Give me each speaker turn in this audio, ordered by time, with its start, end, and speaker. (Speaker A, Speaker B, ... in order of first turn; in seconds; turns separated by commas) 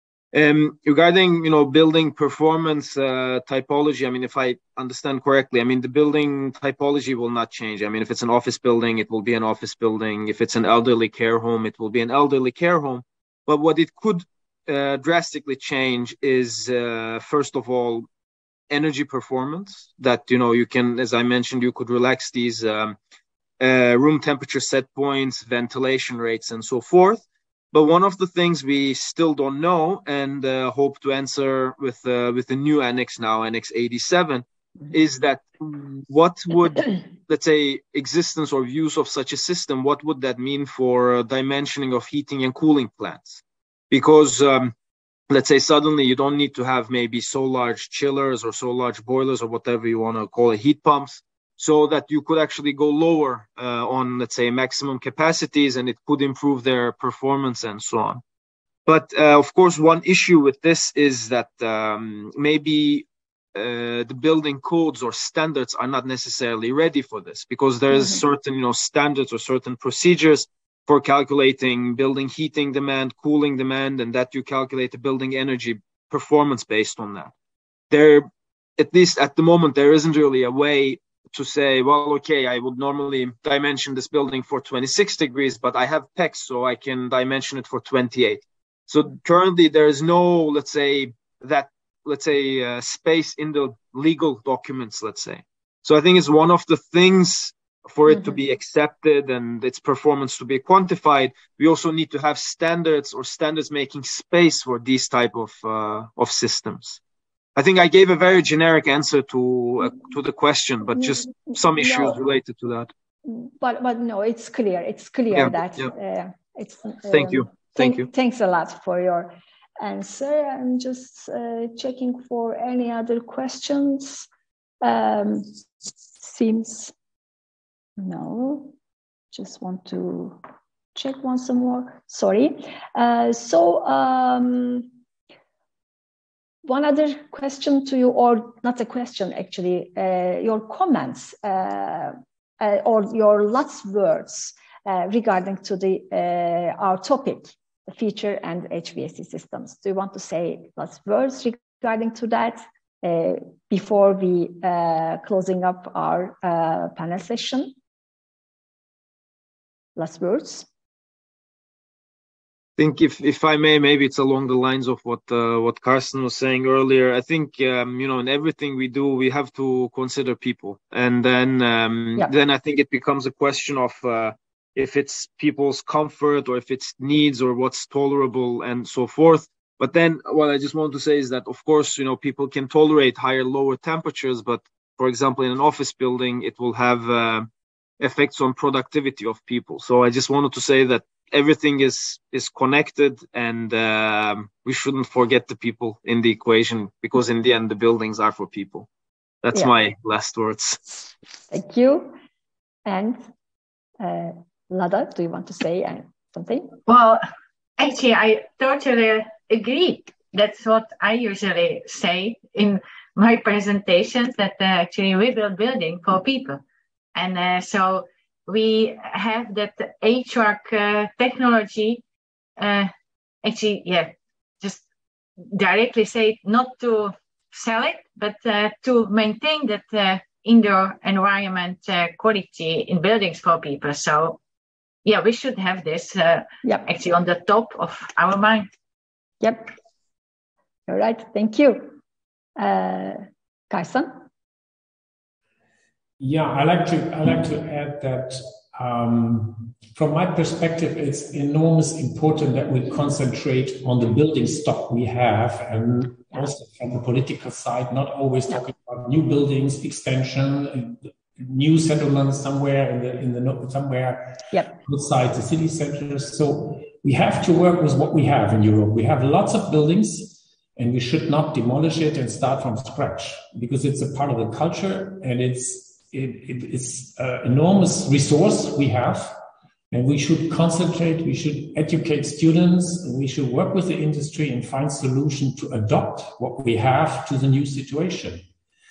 Speaker A: 0.3-18.1, Speaker A: 18.7-23.0, Speaker A: 23.6-44.7, Speaker A: 45.3-58.2, Speaker A: 58.9-77.3, Speaker B: 67.9-68.2, Speaker A: 77.9-107.0, Speaker B: 98.1-98.4, Speaker A: 107.5-112.9, Speaker B: 111.0-112.2, Speaker B: 113.2-124.3, Speaker A: 115.3-115.9, Speaker A: 117.1-118.1, Speaker B: 124.8-125.6, Speaker B: 126.2-126.9, Speaker B: 128.0-128.7, Speaker B: 129.3-130.4, Speaker B: 130.9-134.9, Speaker B: 136.7-157.7, Speaker B: 160.0-160.7, Speaker A: 162.8-187.5, Speaker A: 188.0-198.9, Speaker A: 199.4-200.8, Speaker B: 201.5-202.2, Speaker B: 202.9-203.2, Speaker B: 204.0-206.8, Speaker C: 206.9-207.2, Speaker C: 207.8-216.6, Speaker C: 217.2-222.0, Speaker C: 222.6-222.9, Speaker C: 223.4-224.8, Speaker C: 225.5-234.4, Speaker C: 235.1-238.7, Speaker B: 239.4-239.7, Speaker B: 240.9-242.0, Speaker B: 242.6-244.2, Speaker D: 246.2-279.4, Speaker D: 279.9-288.4